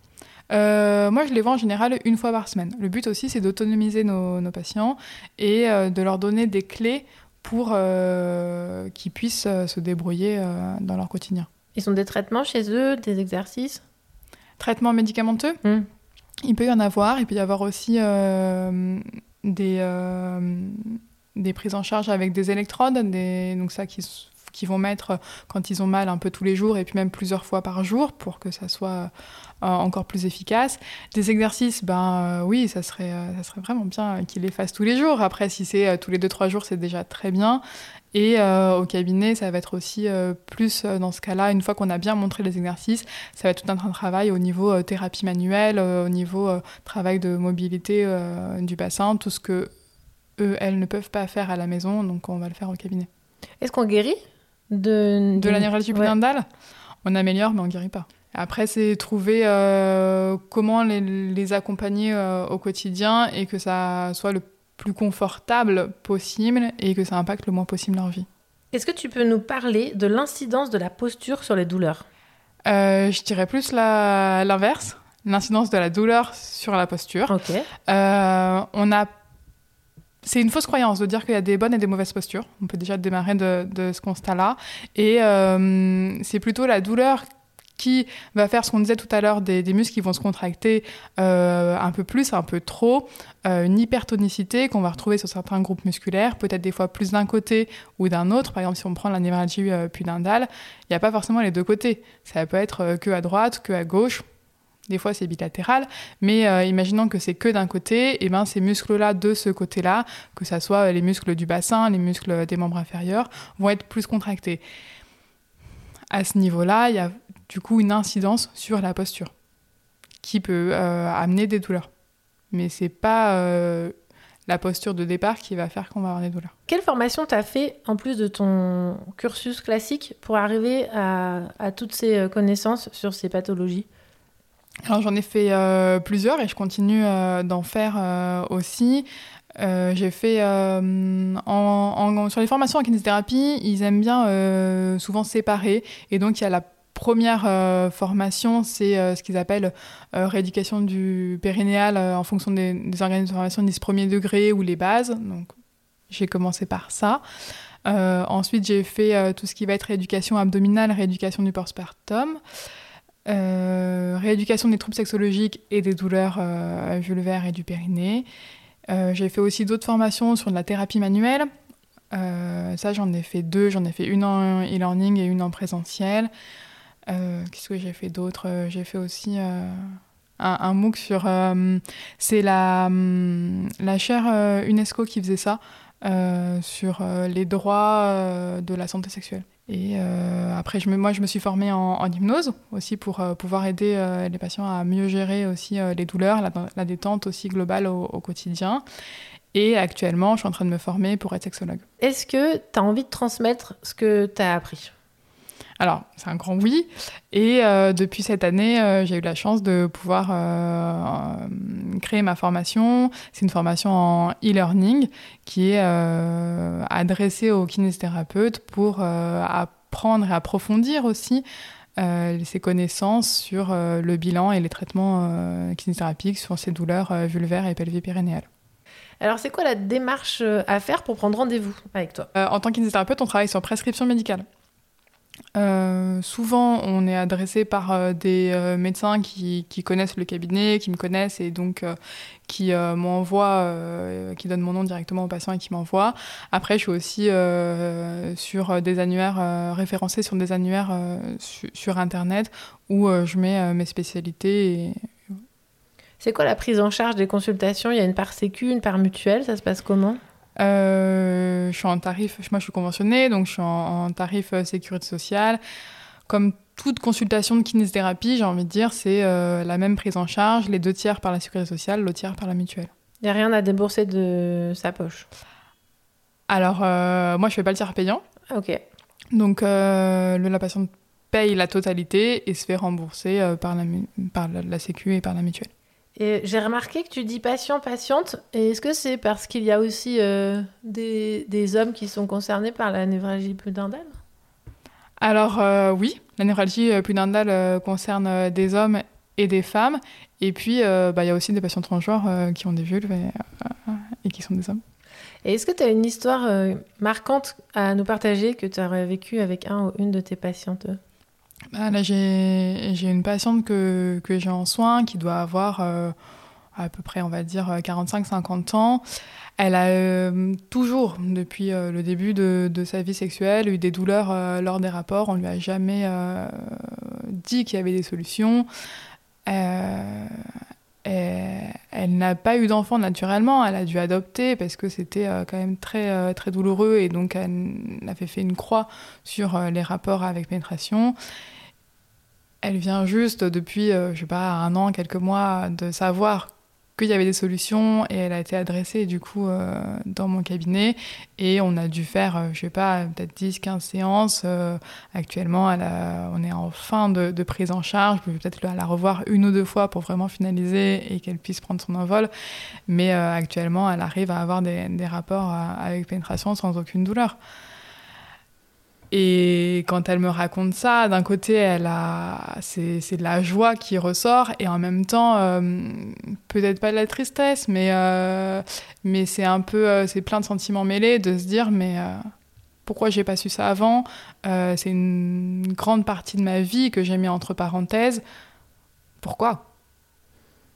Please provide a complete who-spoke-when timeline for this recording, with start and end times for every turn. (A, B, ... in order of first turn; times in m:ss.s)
0:00.5-0:11.5 A
0:11.7-0:13.8 B
0:14.6-0:15.6 A
0:16.4-0:29.1 A
0:29.6-0:37.6 A
0:38.1-0:49.7 A
0:50.4-0:53.1 A
0:53.6-0:54.2 B
0:54.7-0:56.1 B
0:55.4-0:56.4 A
0:57.0-1:08.3 A
1:08.7-1:12.0 B
1:12.6-1:17.3 A
1:17.3-1:17.7 B
1:17.9-1:19.1 A
1:20.2-1:27.2 A
1:27.8-1:44.2 A
1:44.9-1:54.6 A
1:56.1-1:59.3 A
2:00.2-2:01.9 A
2:02.5-2:03.9 A
2:04.5-2:06.5 A
2:06.7-2:13.9 B
2:14.8-2:35.5 A
2:36.1-2:37.2 A
2:37.8-2:42.4 A
2:43.3-2:48.3 A
2:48.9-2:51.5 A
2:52.1-2:56.3 A
2:57.1-3:18.8 A
3:19.5-3:21.8 A
3:22.0-3:24.9 B
3:25.8-3:41.4 A
3:42.0-3:48.5 A
3:49.2-3:52.3 B
3:52.4-3:54.4 A
3:55.6-4:02.0 A
4:02.5-4:15.0 A
4:16.2-4:20.2 B
4:20.6-4:25.6 A
4:26.3-4:32.9 A
4:33.2-4:35.3 B
4:36.5-4:38.2 A
4:38.5-4:38.8 B
4:39.3-4:45.7 A
4:46.2-4:54.2 B
4:55.2-5:04.8 A
5:05.4-5:11.0 B
5:11.7-5:16.1 A
5:16.8-5:19.0 A
5:19.6-5:28.7 A
5:29.5-5:30.5 A
5:31.0-5:41.1 A
5:42.6-6:02.3 A
6:02.9-6:07.4 A
6:09.1-6:22.2 A
6:22.8-6:28.2 A
6:29.2-6:29.6 A